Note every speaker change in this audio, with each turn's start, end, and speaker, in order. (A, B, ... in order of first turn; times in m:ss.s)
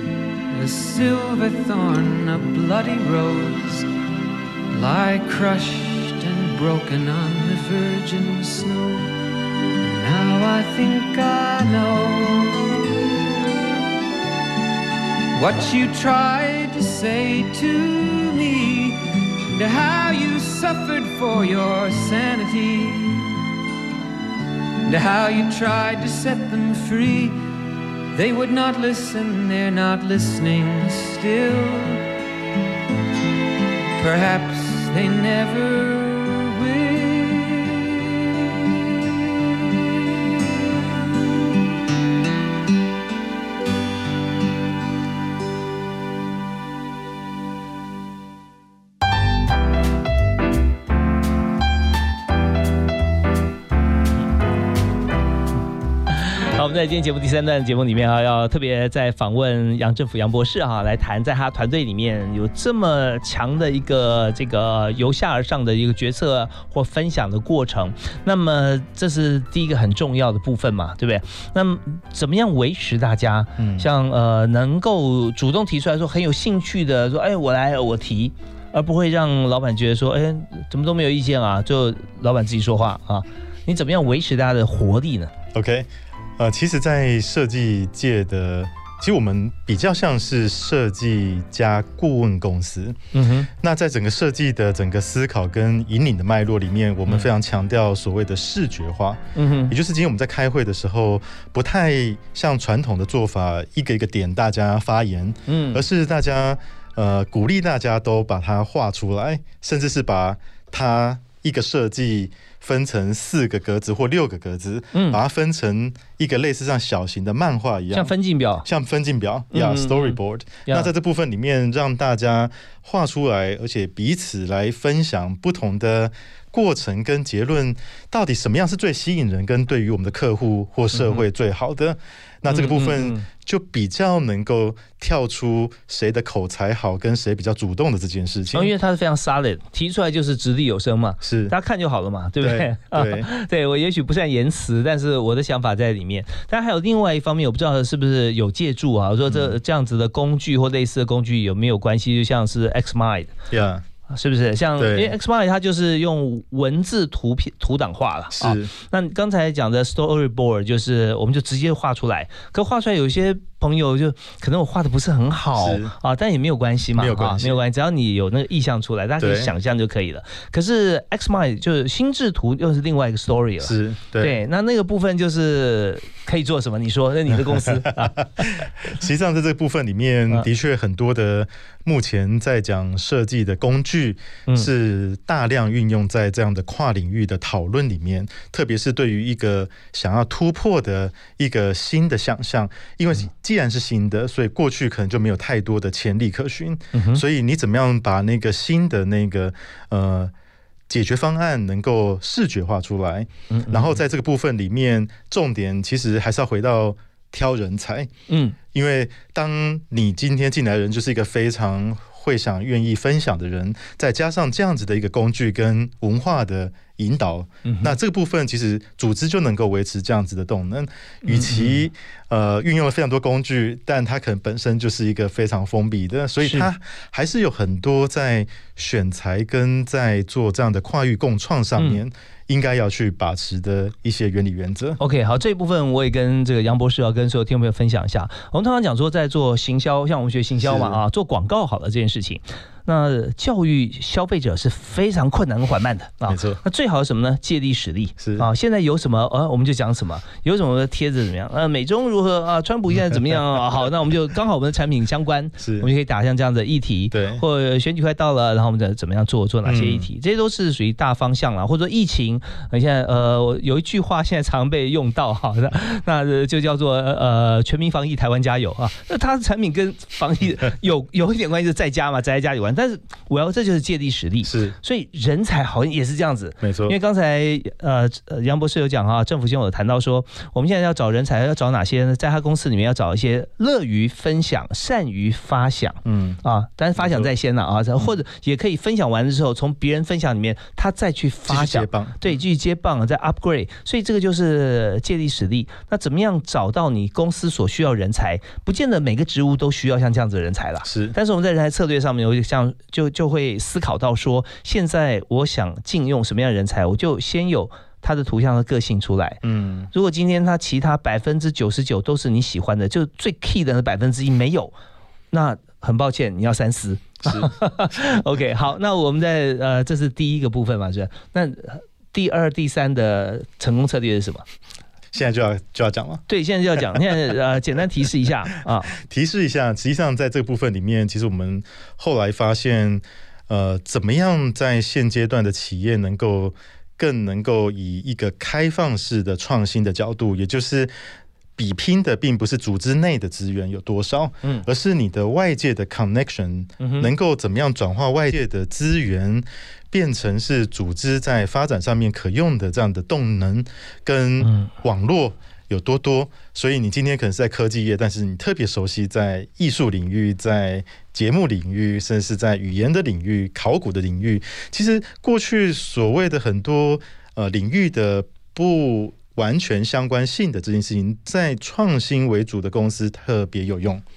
0:00.5-0:03.9 A
0:04.7-0:09.2 A
0:09.8-0:12.8 A
0:15.3-0:23.3 A
0:24.9-0:27.4 A
0:28.1-0:32.1 A
0:34.0-0:37.9 A
0:56.2-1:25.3 B
1:13.6-1:13.9 C
1:25.5-1:25.9 C
1:26.4-1:33.0 C
1:33.1-1:33.5 B
1:33.6-1:58.1 C
1:39.4-1:39.8 B
1:45.5-1:45.8 B
1:54.9-1:55.2 B
1:57.9-1:58.6 B
1:58.6-2:18.7 C
1:59.5-2:00.9 B
2:10.9-2:11.2 B
2:12.5-2:13.3 B
2:18.5-2:33.3 B
2:21.2-2:21.5 C
2:22.4-2:23.3 C
2:29.3-2:29.6 C
2:33.5-2:33.8 C
2:34.1-2:58.6 B
2:34.8-2:35.1 C
2:38.3-2:38.7 C
2:45.6-2:45.9 C
2:47.0-2:47.6 C
2:49.2-2:49.5 C
2:53.6-2:54.3 C
2:57.3-3:20.3 C
3:16.9-3:17.2 B
3:20.9-3:28.1 C
3:23.5-3:24.0 B
3:28.3-3:28.6 B
3:28.7-3:55.0 C
3:37.6-3:38.0 B
3:41.2-3:41.8 B
3:46.4-3:46.7 B
3:55.0-5:09.4 B
4:00.6-4:01.0 C
4:06.3-4:06.6 C
4:08.2-4:08.5 C
4:15.6-4:15.9 C
4:17.1-4:17.4 C
4:19.6-4:20.1 C
4:34.4-4:34.8 C
4:36.6-4:37.0 C
4:46.0-4:46.4 C
4:47.0-4:47.3 C
4:51.5-4:52.3 C
5:00.8-5:01.2 C
5:09.4-5:09.9 C
5:09.9-5:14.7 B
5:15.3-5:24.4 B
5:17.3-5:17.5 C
5:25.1-5:26.2 C
5:26.3-5:28.9 B
5:28.9-5:40.9 C
5:41.6-6:14.0 C
5:46.8-5:47.1 B
5:54.4-5:54.7 B